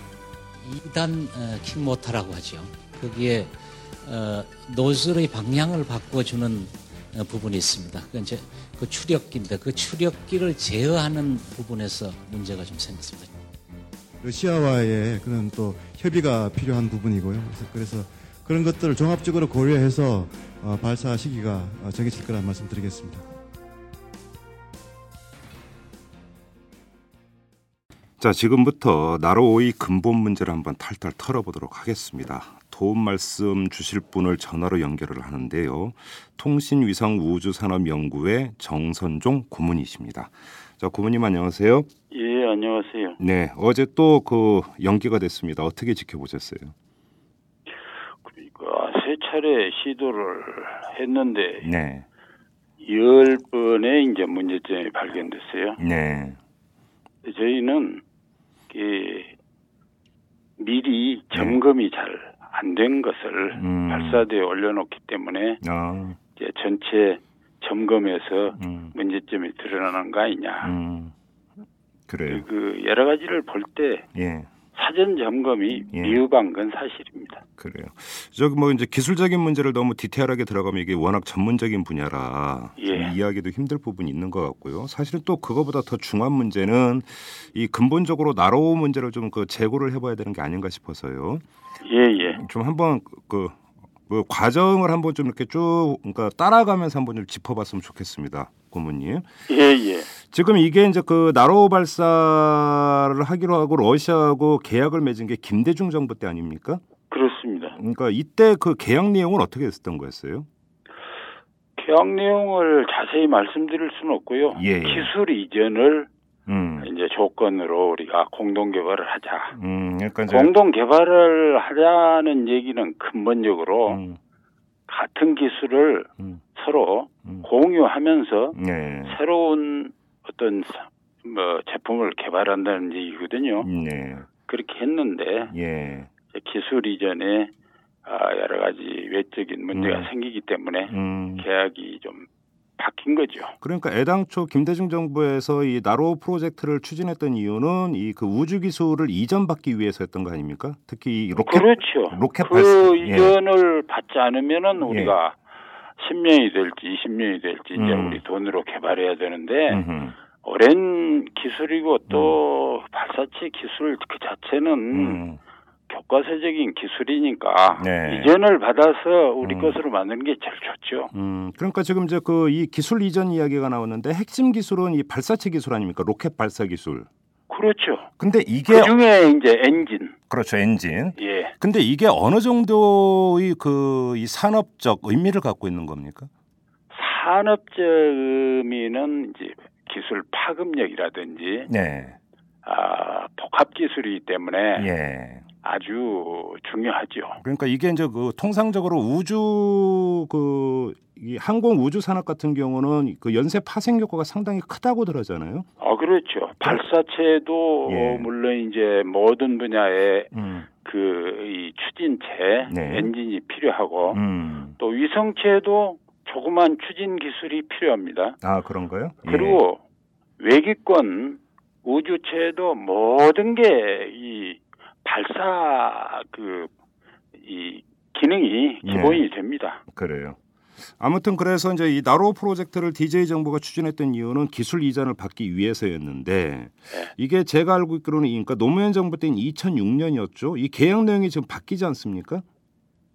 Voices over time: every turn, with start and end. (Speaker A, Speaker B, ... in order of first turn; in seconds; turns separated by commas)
Speaker A: 0.6-13.3, Speaker B: 14.2-23.3, Speaker C: 28.2-41.9, Speaker D: 42.1-43.2, Speaker C: 43.2-46.7, Speaker D: 48.2-51.7, Speaker C: 51.6-52.1, Speaker D: 52.8-55.8, Speaker C: 55.8-56.4, Speaker D: 57.2-58.0, Speaker D: 58.7-59.3, Speaker D: 60.6-65.6, Speaker C: 61.3-61.6, Speaker C: 63.5-64.2, Speaker C: 65.6-66.2, Speaker D: 66.3-70.7, Speaker C: 68.6-68.9, Speaker C: 70.6-71.1, Speaker C: 72.1-72.4, Speaker D: 72.3-74.1, Speaker C: 74.1-74.5, Speaker D: 74.8-77.4, Speaker C: 75.9-76.2, Speaker C: 77.6-91.4, Speaker D: 82.8-83.1, Speaker D: 91.8-92.4, Speaker C: 92.3-93.6, Speaker C: 94.1-99.3, Speaker D: 99.5-100.1, Speaker C: 100.3-106.8, Speaker D: 107.1-107.8, Speaker C: 107.8-110.5, Speaker D: 111.8-116.1, Speaker C: 114.5-115.1, Speaker C: 116.5-116.9, Speaker D: 116.8-119.6, Speaker C: 119.5-120.5, Speaker D: 120.3-124.0, Speaker C: 123.9-124.2, Speaker D: 124.9-133.7, Speaker C: 128.6-129.2, Speaker C: 133.6-134.3, Speaker D: 134.5-135.5, Speaker C: 135.5-136.1, Speaker D: 136.3-137.5, Speaker D: 138.1-142.3, Speaker C: 139.7-140.1, Speaker C: 140.9-141.4, Speaker D: 142.8-143.6, Speaker C: 143.6-153.3, Speaker D: 151.4-155.4, Speaker C: 154.8-155.1, Speaker D: 156.0-159.8, Speaker C: 157.8-158.2, Speaker C: 159.7-160.2, Speaker D: 160.4-165.2, Speaker C: 162.1-162.3, Speaker C: 164.9-165.4, Speaker D: 165.9-171.1, Speaker C: 167.8-168.3, Speaker C: 169.4-169.8, Speaker C: 171.1-177.1, Speaker D: 177.5-178.1, Speaker C: 178.2-178.9, Speaker D: 178.7-180.1, Speaker C: 180.3-186.3, Speaker D: 181.2-181.5, Speaker D: 186.9-191.7, Speaker C: 191.7-192.2, Speaker D: 192.6-194.9, Speaker C: 194.8-195.4, Speaker D: 195.6-197.4, Speaker C: 197.4-205.7, Speaker D: 205.8-210.3, Speaker C: 207.8-208.3, Speaker C: 210.3-210.7, Speaker D: 210.8-214.2, Speaker C: 212.7-213.1, Speaker C: 214.1-214.8, Speaker D: 214.8-218.4, Speaker C: 218.4-219.6, Speaker D: 219.2-219.8, Speaker D: 220.4-226.7, Speaker D: 227.3-229.8, Speaker C: 228.8-229.2, Speaker C: 229.9-230.4, Speaker C: 231.0-242.4